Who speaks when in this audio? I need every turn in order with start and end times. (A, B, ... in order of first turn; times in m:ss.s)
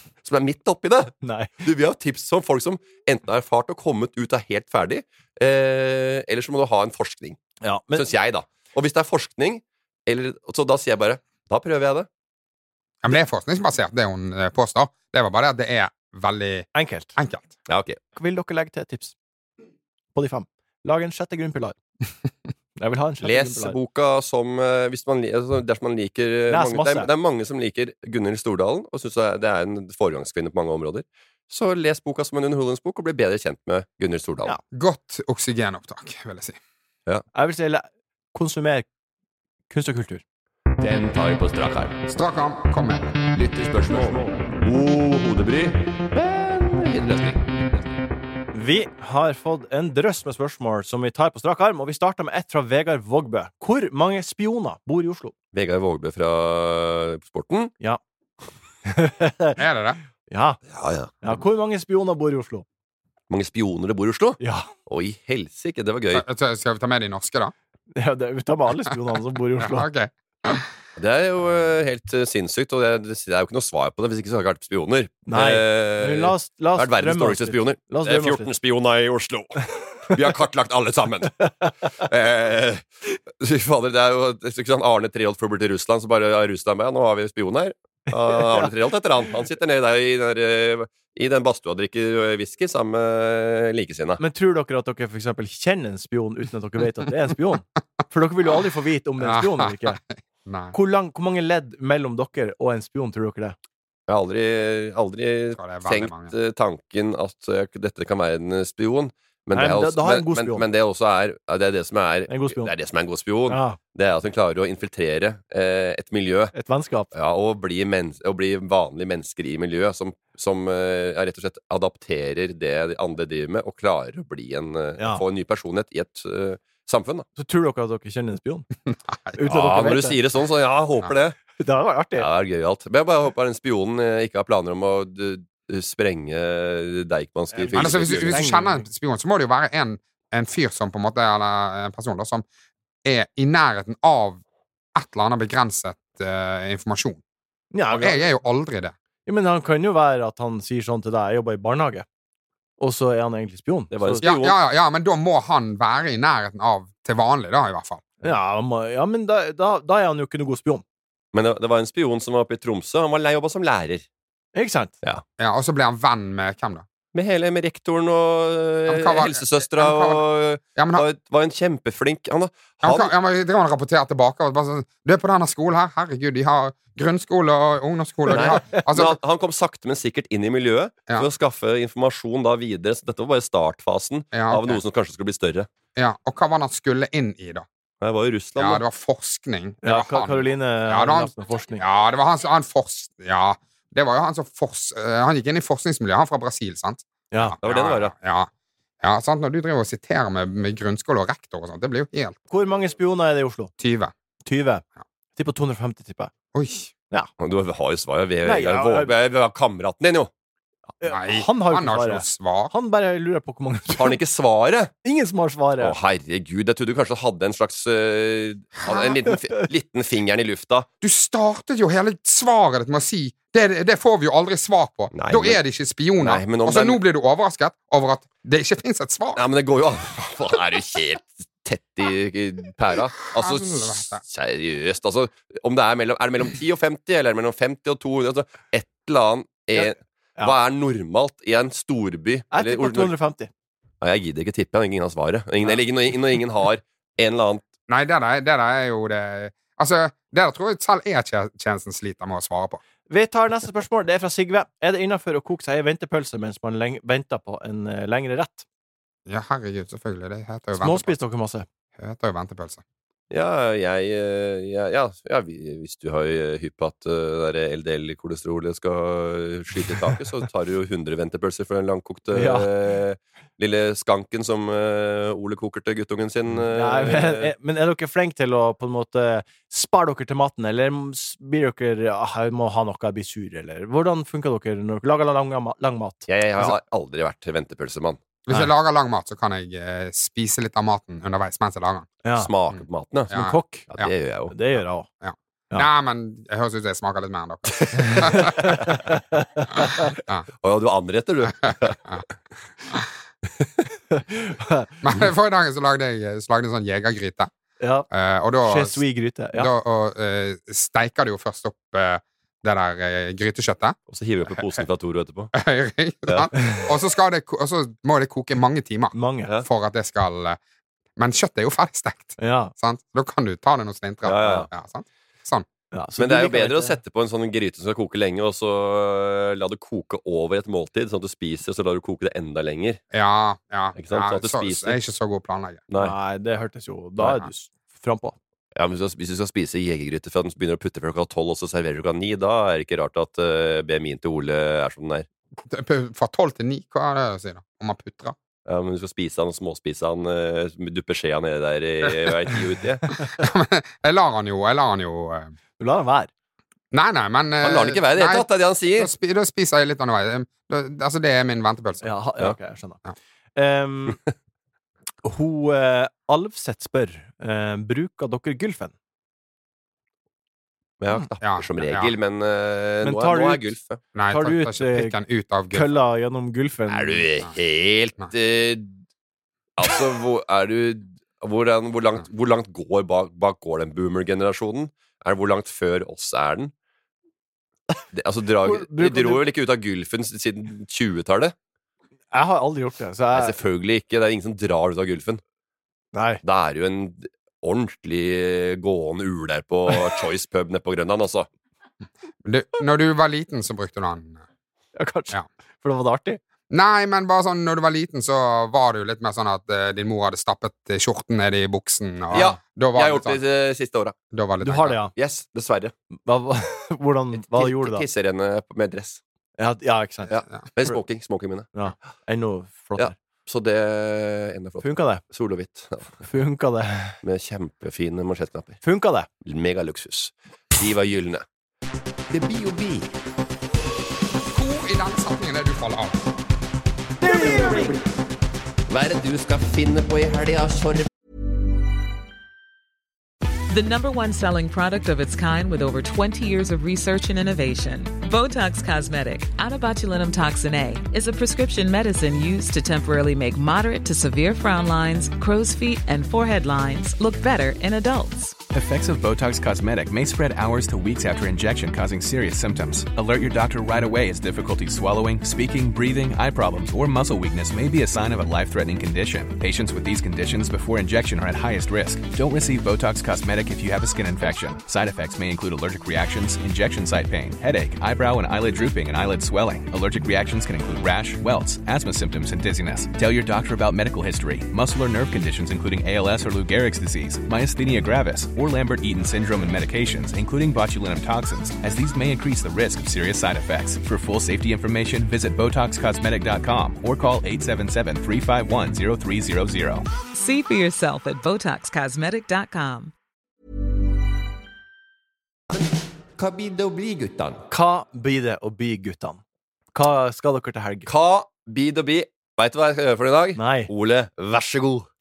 0:00.2-0:07.4 A
0:01.2-0:01.5 B
0:07.6-0:08.0 B
0:07.9-0:12.1 A
0:13.0-0:17.5 C
0:16.7-0:17.1 B
0:17.7-0:18.0 A
0:18.1-0:19.1 B
0:20.1-0:21.7 B
0:22.8-0:23.8 B
0:23.2-0:34.6 A
0:26.5-0:27.1 B
0:34.7-0:36.6 C
0:37.3-0:38.9 B
0:39.7-0:40.2 B
0:40.8-0:42.0 D
0:42.1-0:43.1 C
0:43.3-0:45.7 D
0:46.2-0:47.0 A
0:46.9-0:47.8 D
0:48.5-0:55.3 B
0:55.5-0:57.7 A
0:58.8-0:59.6 B
0:59.6-1:00.0 C
1:00.3-1:00.6 B
1:00.7-1:01.4 A
1:01.2-1:02.6 B
1:03.3-1:06.2 A
1:04.4-1:04.7 B
1:06.1-1:07.5 C
1:07.9-1:09.9 B
1:09.6-1:10.7 C
1:11.0-1:21.4 A
1:15.3-1:18.5 B
1:21.4-1:21.7 B
1:22.0-1:34.2 A
1:28.3-1:28.7 B
1:34.2-1:40.0 B
1:39.2-1:40.8 C
1:40.7-1:43.6 B
1:44.1-1:56.5 A
1:45.6-1:46.3 C
1:49.5-1:50.6 B
1:52.3-1:52.7 B
1:53.5-1:53.8 B
1:56.5-1:57.1 B
1:57.1-2:07.3 A
2:07.4-2:08.6 B
2:08.9-2:09.4 C
2:09.4-2:10.2 B
2:09.4-2:11.4 A
2:11.6-2:12.3 B
2:12.2-2:18.4 A
2:17.5-2:18.9 B
2:17.7-2:22.4 C
2:23.0-2:24.4 C
2:24.9-2:27.2 C
2:27.7-2:28.2 B
2:27.9-2:28.9 C
2:29.2-2:32.0 B
2:32.8-2:34.2 B
2:33.9-2:34.6 A
2:34.2-2:38.0 C
2:38.2-2:40.8 B
2:41.3-2:44.0 A
2:44.5-2:44.9 B
2:45.4-2:46.8 C
2:47.1-2:53.1 A
2:48.9-2:50.2 C
2:50.8-2:51.0 C
2:52.8-2:59.2 C
2:58.3-3:05.7 A
2:58.3-2:58.8 B
3:04.3-3:04.8 C
3:06.0-3:07.7 C
3:08.0-3:08.8 A
3:08.6-3:18.5 C
3:09.8-3:11.8 B
3:17.3-3:17.6 B
3:17.6-3:18.1 A
3:19.0-3:22.4 C
3:22.5-3:23.7 B
3:23.8-3:24.1 C
3:24.4-3:24.8 B
3:25.4-3:26.3 B
3:26.5-3:26.9 C
3:27.4-3:30.3 A
3:28.4-3:29.1 B
3:31.0-3:34.2 B
3:31.0-3:32.7 C
3:33.9-3:34.9 A
3:35.0-3:35.9 B
3:35.8-3:40.9 A
3:41.0-3:49.4 C
3:45.1-3:45.6 A
3:46.2-3:47.0 A
3:49.4-4:03.1 A
3:53.3-3:54.2 C
4:02.5-4:03.5 B
4:04.0-4:07.6 A
4:07.9-4:12.8 C
4:13.1-4:18.6 B
4:19.2-4:21.1 C
4:20.7-4:21.6 B
4:22.0-4:22.8 C
4:23.3-4:37.5 A
4:32.3-4:32.7 B
4:36.7-4:46.7 B
4:46.3-4:48.2 A
4:48.5-4:52.1 C
4:52.2-4:52.5 B
4:52.4-4:53.3 A
4:52.7-4:54.1 C
4:53.3-4:53.9 B
4:53.9-4:54.5 A
4:54.5-4:55.1 B
4:55.2-4:58.7 C
4:58.0-5:00.1 B
5:00.6-5:02.0 A
5:04.1-5:04.9 B
5:05.0-5:07.5 C
5:07.8-5:08.1 B
5:08.1-5:09.0 C
5:08.6-5:09.7 B
5:09.5-5:14.0 C
5:14.1-5:15.5 A
5:14.5-5:14.8 C
5:15.5-5:20.6 C
5:19.1-5:19.5 B
5:21.2-5:25.7 C
5:22.4-5:22.7 B
5:24.2-5:24.7 A
5:25.9-5:27.0 B
5:26.2-5:33.0 A
5:33.1-5:35.8 C
5:34.0-5:35.0 A
5:36.0-5:38.4 B
5:37.2-5:37.5 C
5:38.8-5:45.3 A
5:45.7-5:48.4 C
5:48.6-5:53.1 A
5:53.3-5:55.5 C
5:55.8-5:56.3 B
5:56.9-6:02.1 C
5:57.6-5:59.1 A
6:02.0-6:03.0 B
6:03.6-6:04.2 B
6:05.2-6:08.9 B
6:11.0-6:14.0 A
6:11.4-6:12.1 C
6:13.0-6:13.7 B
6:14.1-6:16.0 C
6:14.3-6:15.2 B
6:15.7-6:17.2 B
6:16.9-6:18.9 A
6:19.8-6:26.7 A
6:28.1-6:31.5 A
6:28.6-6:29.4 B
6:32.3-6:33.5 B
6:33.3-6:35.4 A
6:36.1-6:36.4 B
6:36.4-6:41.5 A
6:42.4-6:44.4 C
6:45.0-6:46.4 B
6:46.7-6:53.4 C
6:52.3-6:52.6 B
6:52.3-6:54.1 A
6:54.3-6:55.0 C
6:54.6-6:55.1 B
6:55.1-6:55.9 A
6:56.2-6:58.0 B
6:57.3-6:59.2 A
6:59.6-7:00.3 B
7:00.3-7:01.7 A
7:01.7-7:03.1 B
7:03.0-7:06.3 A
7:04.8-7:05.2 B
7:06.3-7:07.2 B
7:07.2-7:08.8 A
7:08.8-7:09.3 B
7:09.4-7:11.4 A
7:12.3-7:13.1 A
7:14.5-7:16.2 C
7:17.2-7:18.0 B
7:17.4-7:17.9 A
7:18.9-7:21.1 A
7:23.7-7:38.6 E
7:38.7-8:20.0 F
8:20.3-8:23.1 E
8:26.4-8:27.6 A
8:27.7-8:29.4 B
8:29.9-8:31.1 B
8:31.0-8:35.1 A
8:33.6-8:33.9 B